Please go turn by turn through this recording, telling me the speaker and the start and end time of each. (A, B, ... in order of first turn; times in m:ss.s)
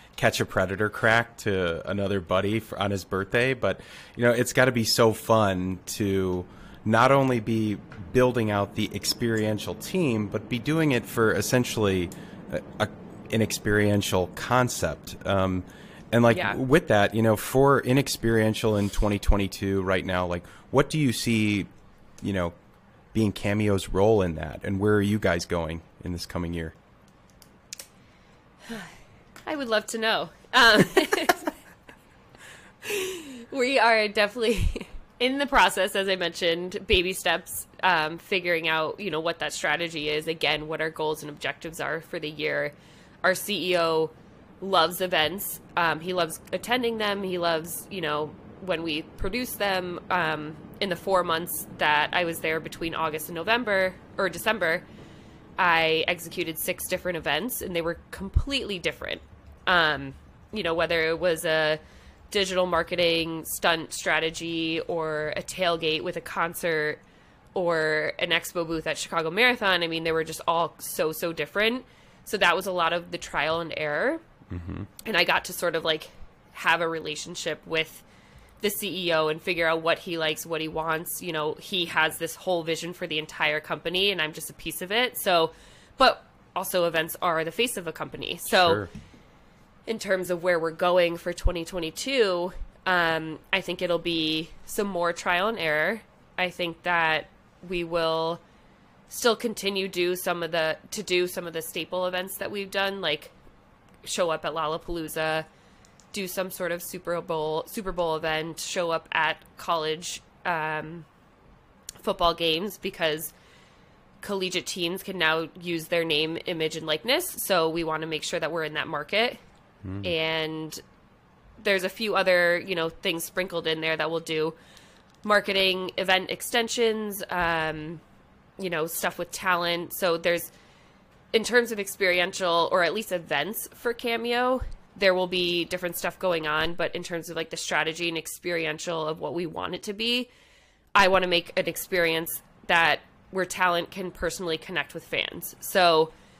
0:00.2-0:21.7 A
0:16.3-0:16.6 B
0:22.2-0:22.5 A
0:23.1-0:26.7 A
0:29.4-0:31.5 B
0:32.8-0:54.8 B
0:55.6-1:07.0 B
1:07.5-1:14.2 B
1:14.5-1:14.9 A
1:15.0-1:18.0 B
1:18.6-1:28.8 B
1:28.5-1:28.9 A
1:29.9-1:38.4 B
1:39.1-1:43.3 B
1:44.0-1:45.4 B
1:46.1-1:51.0 B
1:52.0-1:53.3 B
1:54.2-1:59.4 B
1:59.8-2:00.1 A
2:00.0-2:00.8 B
2:01.6-2:04.6 B
2:05.2-2:08.0 B
2:08.6-2:10.5 B
2:11.3-2:20.3 B
2:20.9-2:26.1 B